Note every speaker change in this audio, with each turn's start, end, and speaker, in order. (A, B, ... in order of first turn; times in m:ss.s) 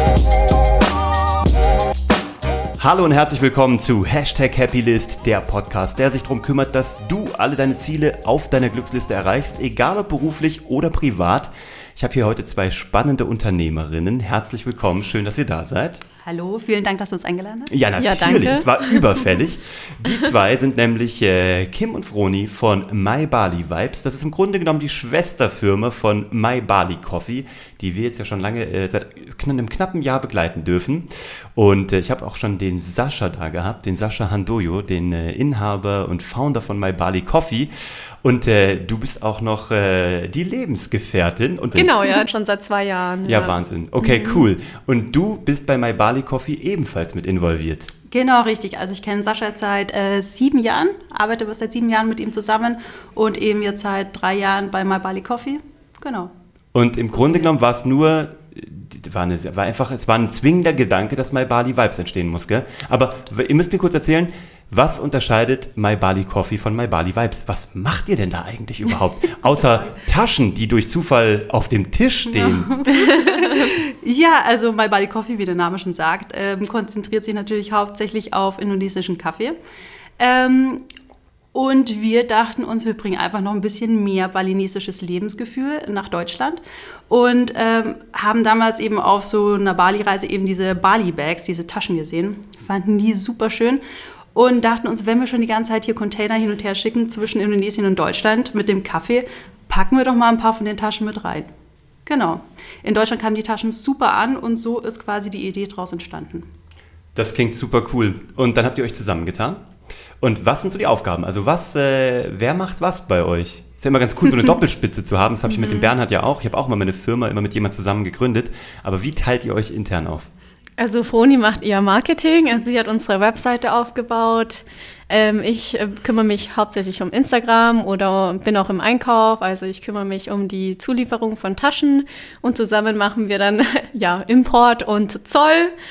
0:02.8-0:16.0 A
0:16.2-0:17.7 B
0:17.7-0:41.9 A
0:18.0-0:18.7 C
0:41.8-0:44.5 C
0:43.2-0:47.9 A
0:48.1-0:56.3 B
0:56.7-1:12.8 A
0:57.1-0:57.5 B
1:09.4-1:09.9 B
1:12.3-1:19.6 B
1:13.0-1:13.6 C
1:20.2-1:20.9 B
1:21.5-1:33.8 B
1:34.3-1:41.5 B
1:42.0-1:46.5 B
1:47.1-1:49.7 A
1:50.2-2:00.3 A
1:55.5-1:55.9 C
2:00.8-2:15.8 C